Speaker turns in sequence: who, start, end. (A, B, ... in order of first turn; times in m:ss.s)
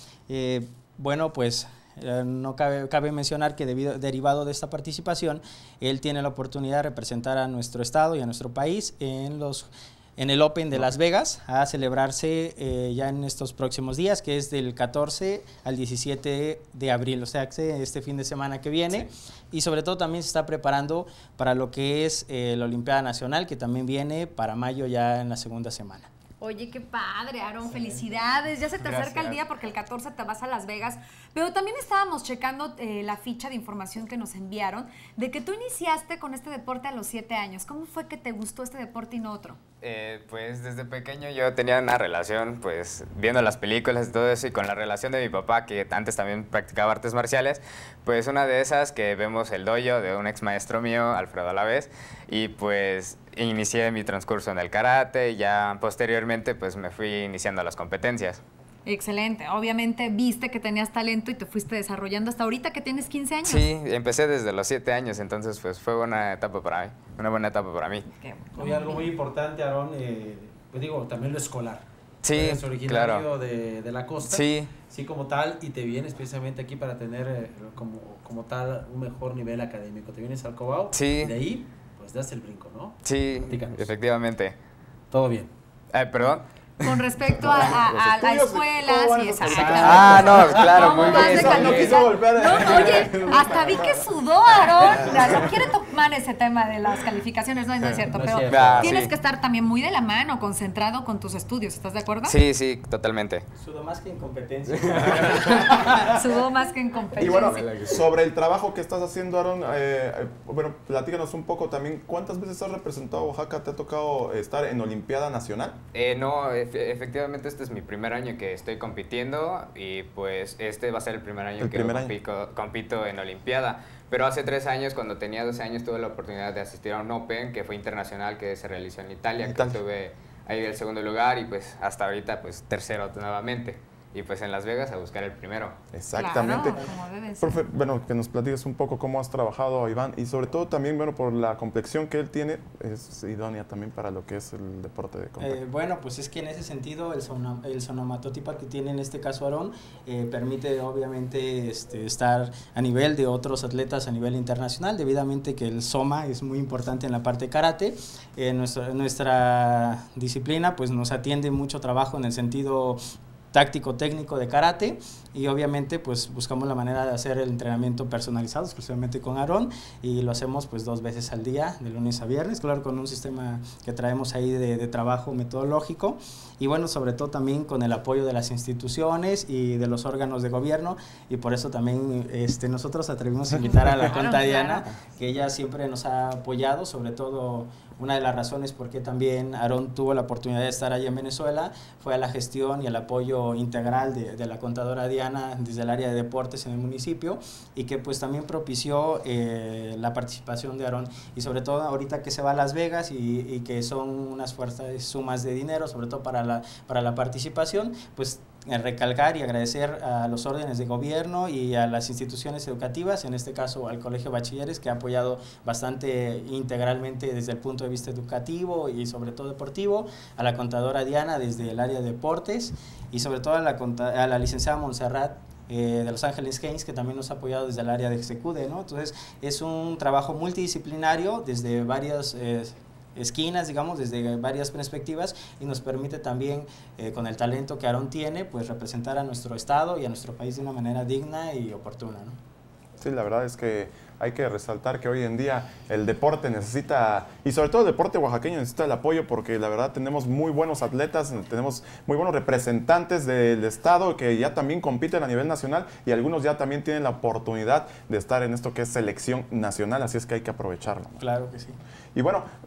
0:00.3-0:26.1 A
0:26.4-0:39.6 B
0:39.8-0:58.4 C
0:58.9-1:03.7 B
1:03.4-1:08.1 C
1:08.2-1:09.1 B
1:08.6-1:23.9 D
1:12.2-1:13.3 C
1:14.2-1:14.7 C
1:20.9-1:21.4 C
1:23.0-1:24.6 C
1:25.1-1:25.5 D
1:25.9-1:27.0 C
1:26.8-1:42.4 B
1:27.4-1:34.0 E
1:29.4-1:31.7 D
1:29.7-1:32.0 C
1:38.1-1:39.1 D
1:38.4-1:39.1 C
1:42.2-1:43.4 C
1:43.6-1:46.3 A
1:44.9-1:45.5 C
1:46.0-1:47.8 B
1:47.2-1:55.8 E
1:47.4-1:47.8 C
1:55.9-2:15.8 C
2:01.6-2:02.2 E
2:09.4-2:09.8 E
2:15.9-2:16.8 E
2:16.2-2:17.6 B
2:17.4-2:25.6 E
2:25.4-2:43.0 A
2:43.5-4:02.4 A
3:04.0-3:04.9 B
4:03.0-4:21.2 E
4:21.2-4:21.8 A
4:22.2-4:22.5 E